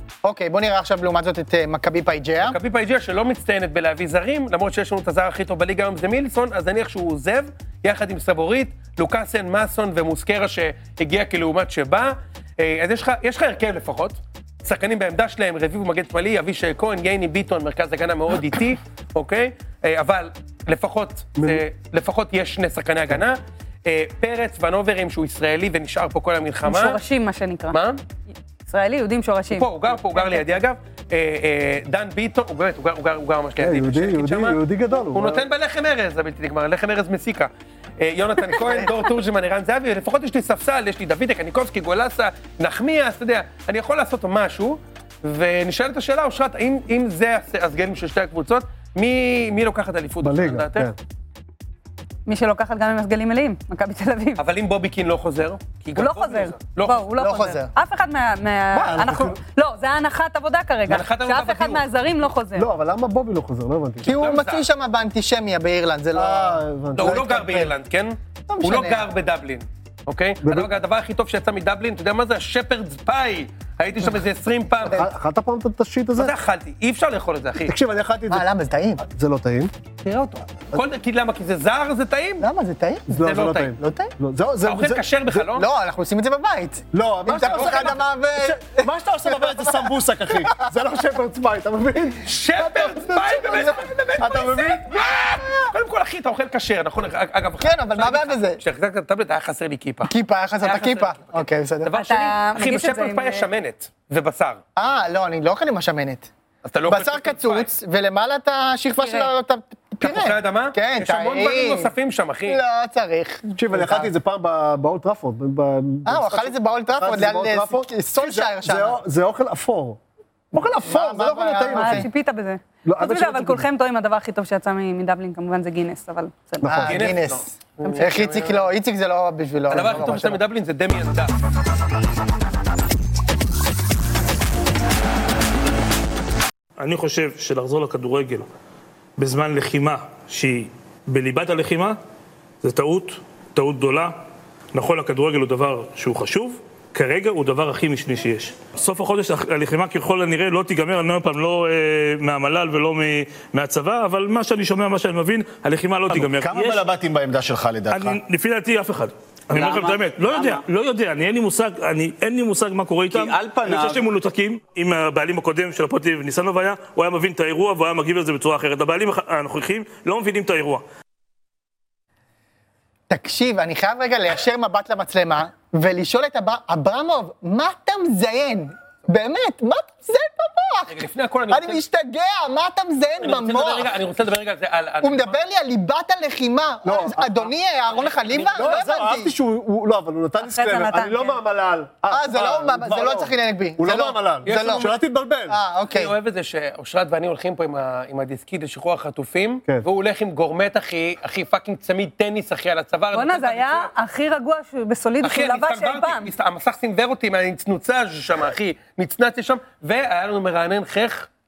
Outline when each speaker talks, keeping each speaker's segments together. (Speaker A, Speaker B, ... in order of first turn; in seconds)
Speaker A: 0.2-2.6, 38.6-38.9, 57.1-57.7, 64.0-67.7, 68.5-69.1, 78.3-79.0, 82.4-83.1, 83.8-84.1, 85.6-90.7, 93.5-95.7, 97.6-98.6, 100.1-101.9, 104.8-106.3, 106.9-111.9, 112.5-114.1, 116.1-119.0, 120.8-122.1, 126.6-130.4, 173.1-181.0, 181.5-183.9, 185.0-189.3, 192.1-194.9, 195.5-196.1
Speaker B: 2.4-27.0, 27.7-28.0, 29.5-50.9, 54.4-57.0, 60.9-61.9, 64.0-64.7, 67.0-75.0, 76.2-77.8, 80.0-82.5, 83.1-83.7, 84.6-85.7, 87.5-88.0, 92.2-104.6, 106.7-107.7, 110.0-112.6, 126.9-128.7, 129.7-131.3, 180.9-181.8, 183.2-185.4, 187.9-188.7, 194.4-194.9, 195.9-203.9, 205.2-211.3
Speaker C: 21.4-21.6, 33.6-35.5, 50.2-51.0, 58.7-59.4, 62.6-64.1, 66.1-67.2, 70.4-70.7, 74.9-76.3, 77.7-78.5, 79.0-79.7, 83.1-85.5, 86.9-94.9, 113.6-120.0, 120.5-122.1, 122.8-123.7, 126.6-127.2, 186.8-187.5, 188.3-195.6
Speaker D: 26.6-27.8, 28.7-30.5, 52.3-54.4, 56.0-62.7, 102.0-103.5, 109.0-109.3, 121.7-126.9, 190.4-191.4, 203.1-206.3
Speaker E: 136.8-138.5, 139.2-142.0, 142.6-144.2, 144.7-156.9, 157.9-170.8
Speaker F: 156.2-158.0, 159.5-160.6, 163.1-164.1